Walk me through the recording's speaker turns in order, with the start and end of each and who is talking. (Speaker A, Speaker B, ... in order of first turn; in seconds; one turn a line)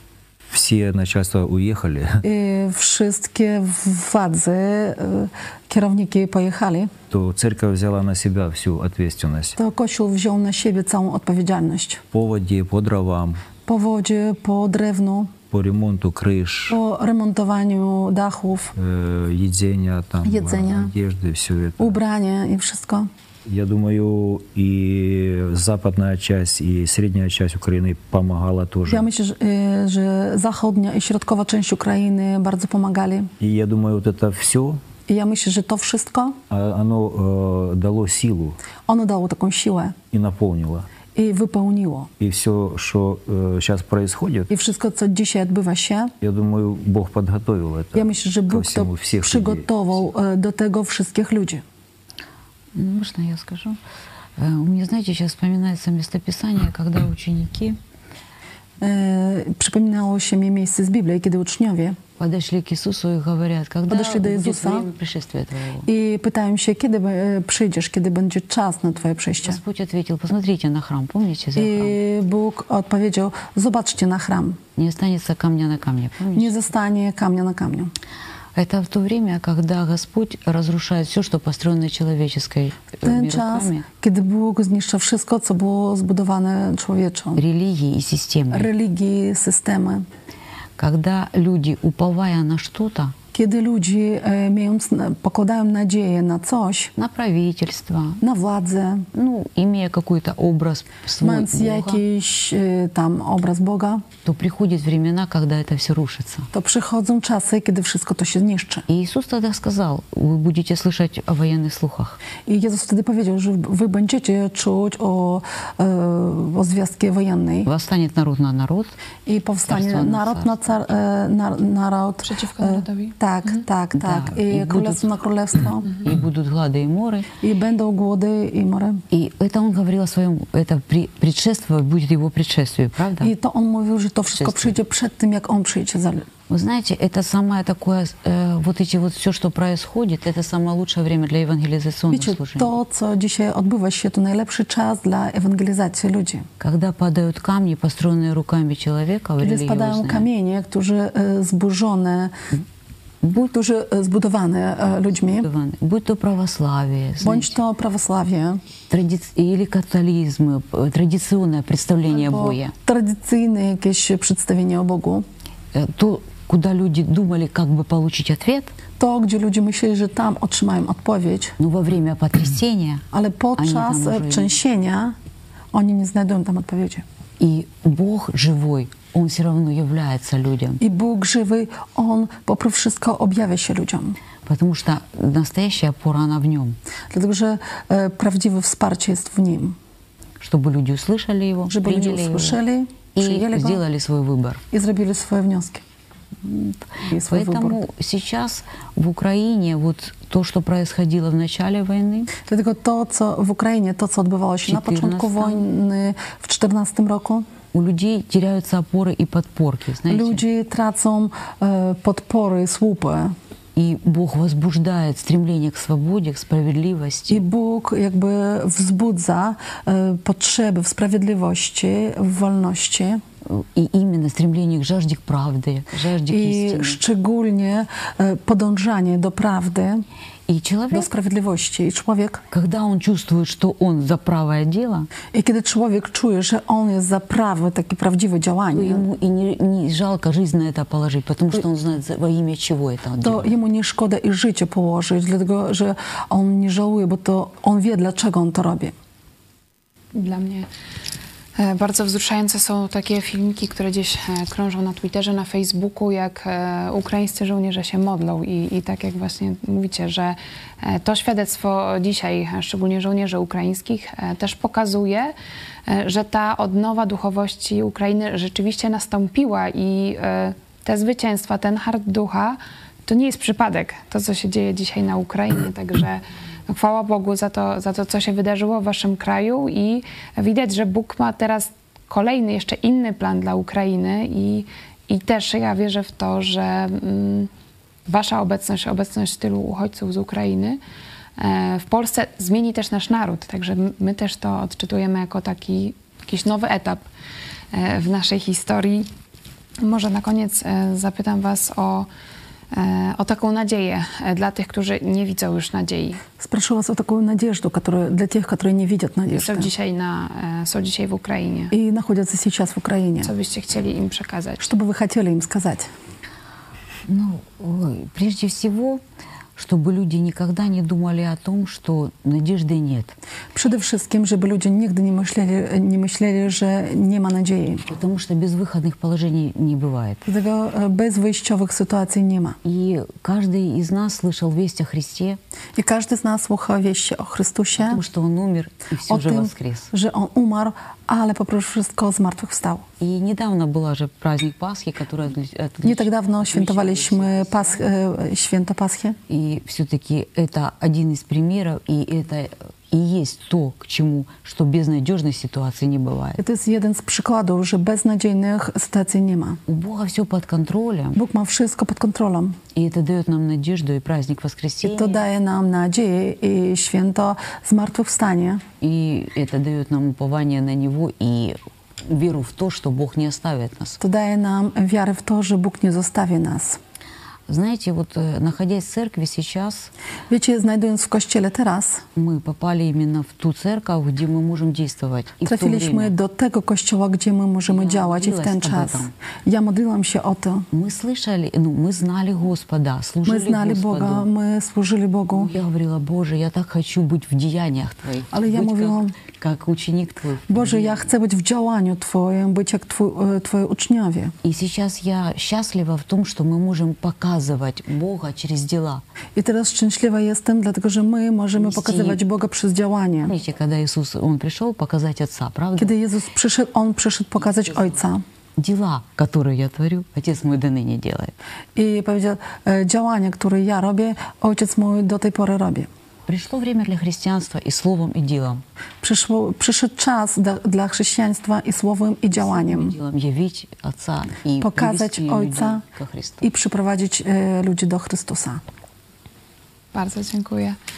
Speaker A: 0.5-2.2
Speaker B: 2.2-6.9
Speaker A: 7.1-9.6
Speaker B: 9.6-12.0
Speaker A: 12.1-13.4
Speaker B: 13.7-15.3
Speaker A: 15.5-16.8
Speaker B: 16.7-18.7
Speaker A: 18.8-22.0
Speaker B: 20.2-20.9
Speaker B: 21.8-23.1
Speaker A: 23.4-29.1
Speaker B: 28.9-33.3
Speaker A: 33.4-34.8
Speaker B: 35.1-36.4
Speaker A: 36.5-38.6
Speaker B: 38.9-40.0
Speaker A: 40.1-40.9
Speaker B: 41.1-42.1
Speaker A: 42.2-44.5
Speaker B: 44.5-46.1
Speaker A: 46.2-49.6
Speaker B: 47.9-51.6
Speaker C: 52.7-53.8
Speaker C: 54.4-57.8
Speaker B: 58.8-62.0
Speaker C: 62.2-65.9
Speaker B: 63.9-64.9
Speaker B: 65.8-69.6
Speaker C: 69.4-72.0
Speaker B: 71.5-74.6
Speaker C: 74.8-76.5
Speaker B: 76.3-77.9
Speaker C: 78.5-83.8
Speaker B: 83.0-87.4
Speaker C: 87.3-88.7
Speaker B: 88.5-90.1
Speaker C: 90.8-93.1
Speaker B: 93.3-96.9
Speaker C: 97.0-98.2
Speaker B: 98.2-99.1
Speaker C: 99.1-102.0
Speaker B: 101.2-104.0
Speaker C: 104.2-106.5
Speaker B: 106.5-108.8
Speaker C: 108.9-112.2
Speaker B: 112.5-117.7
Speaker C: 117.7-119.0
Speaker B: 119.2-125.9
Speaker C: 119.7-120.8
Speaker D: 122.2-123.6
Speaker C: 123.9-125.1
Speaker C: 126.0-127.3
Speaker B: 127.4-129.0
Speaker C: 129.1-133.3
Speaker B: 133.2-136.3
Speaker C: 134.3-134.8
Speaker C: 136.5-142.7
Speaker B: 142.1-146.5
Speaker C: 146.6-150.3
Speaker B: 149.4-152.3
Speaker B: 153.3-155.5
Speaker C: 155.3-157.6
Speaker B: 157.2-158.6
Speaker C: 158.9-162.7
Speaker B: 162.1-165.2
Speaker C: 165.7-168.7
Speaker B: 169.0-171.6
Speaker C: 171.6-173.0
Speaker B: 173.1-175.2
Speaker C: 173.6-174.5
Speaker B: 175.7-177.0
Speaker C: 177.4-180.8
Speaker B: 180.8-184.2
Speaker C: 184.4-186.8
Speaker B: 187.1-189.8
Speaker C: 190.4-192.6
Speaker B: 191.7-193.8
Speaker C: 193.2-194.6
Speaker B: 194.7-195.8
Speaker C: 196.4-202.3
Speaker B: 197.1-197.8
Speaker B: 202.4-207.5
Speaker C: 204.6-205.6
Speaker C: 207.7-210.4
Speaker B: 210.1-213.3
Speaker C: 213.7-217.4
Speaker B: 217.3-223.2
Speaker C: 223.4-227.0
Speaker B: 226.3-230.0
Speaker C: 230.5-231.1
Speaker B: 230.9-232.4
Speaker C: 232.5-235.1
Speaker B: 235.3-239.1
Speaker C: 238.7-243.5
Speaker B: 243.2-248.9
Speaker D: 250.1-250.7
Speaker D: 251.6-265.3
Speaker D: 265.9-287.5
Speaker D: 288.1-290.8
Speaker D: 291.4-297.0
Speaker D: 297.7-299.1
Speaker D: 299.8-302.1
Speaker D: 302.7-306.2
Speaker B: 306.4-309.7
Speaker D: 309.3-311.7
Speaker B: 311.7-313.3
Speaker D: 313.2-314.7
Speaker B: 314.6-315.9
Speaker C: 317.1-319.0
Speaker C: 319.6-323.1
Speaker B: 323.5-327.9
Speaker C: 327.9-330.2
Speaker B: 330.2-332.6
Speaker C: 332.6-335.4
Speaker B: 335.8-338.0
Speaker C: 337.8-339.9
Speaker B: 339.1-342.8
Speaker C: 343.0-347.9
Speaker B: 345.8-349.2
Speaker C: 349.3-356.4
Speaker B: 356.4-359.6
Speaker C: 359.7-361.2
Speaker B: 361.1-362.6
Speaker C: 362.7-365.2
Speaker B: 364.8-368.6
Speaker C: 368.8-374.0
Speaker B: 374.0-376.8
Speaker C: 377.5-379.9
Speaker B: 380.3-382.0
Speaker C: 382.1-386.1
Speaker B: 385.4-390.7
Speaker C: 387.7-389.1
Speaker C: 390.7-394.3
Speaker B: 393.2-395.5
Speaker C: 395.4-401.1
Speaker B: 398.3-399.1
Speaker B: 400.5-404.3
Speaker C: 404.4-409.0
Speaker B: 409.4-413.3
Speaker C: 411.6-412.2
Speaker C: 413.2-415.9
Speaker B: 415.8-418.2
Speaker C: 417.4-418.0
Speaker C: 418.6-421.3
Speaker B: 421.7-425.9
Speaker C: 426.2-428.6
Speaker B: 429.0-432.9
Speaker C: 432.3-436.4
Speaker B: 434.6-435.8
Speaker B: 436.4-438.6
Speaker D: 439.9-440.8